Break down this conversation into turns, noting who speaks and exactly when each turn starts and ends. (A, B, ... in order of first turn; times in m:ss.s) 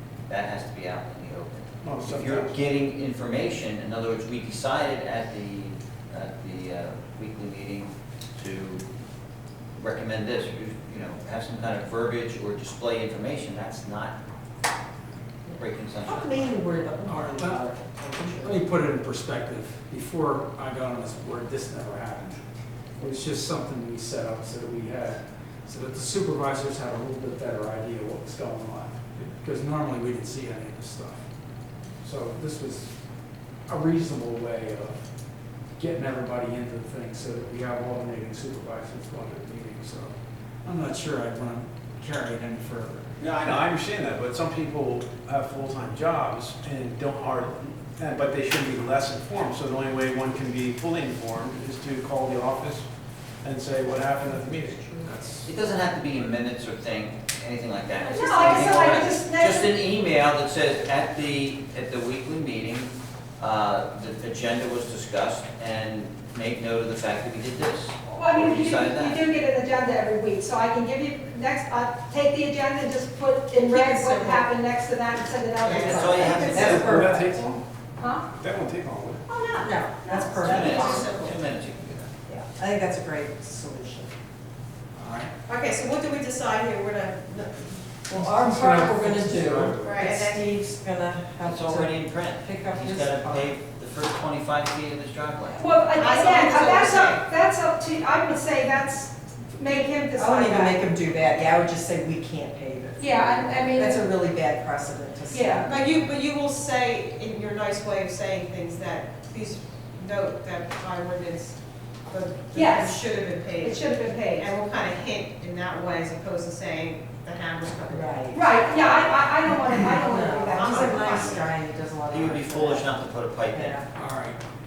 0:00.3-0:08.8 A
0:01.8-0:02.6 B
0:09.8-0:14.1 A
0:15.5-0:16.4 A
0:16.0-0:18.6 C
0:17.0-0:22.4 D
0:23.0-0:31.2 D
0:32.0-0:32.9 D
0:33.7-0:35.0 D
0:35.8-0:43.1 D
0:43.2-0:52.9 B
0:53.4-0:55.0 B
0:55.0-0:55.5 D
0:55.4-1:09.2 A
0:58.0-0:59.8 E
1:08.1-1:16.9 E
1:13.6-1:14.4 F
1:15.6-1:16.4 F
1:15.8-1:17.0 A
1:15.9-1:17.5 C
1:16.5-1:17.6 B
1:18.0-1:18.2 E
1:18.4-1:19.2 B
1:19.3-1:21.0 E
1:19.6-1:21.2 C
1:20.4-1:22.1 A
1:20.5-1:21.3 F
1:22.3-1:24.1 C
1:24.9-1:25.3 D
1:25.5-1:27.8 F
1:28.1-1:33.6 C
1:28.1-1:29.8 D
1:29.8-1:30.4 F
1:31.4-1:35.6 A
1:35.6-1:40.9 E
1:36.0-1:37.2 F
1:40.1-1:45.9 C
1:43.0-1:44.1 E
1:45.3-1:45.7 E
1:45.7-1:51.6 F
1:52.1-1:58.2 F
1:52.5-1:53.0 E
1:53.6-1:54.5 E
1:57.9-1:58.4 C
1:58.3-2:01.3 E
1:58.7-1:59.0 F
1:59.5-2:03.0 C
2:00.5-2:01.5 F
2:02.1-2:03.8 A
2:03.5-2:03.9 C
2:03.9-2:04.4 D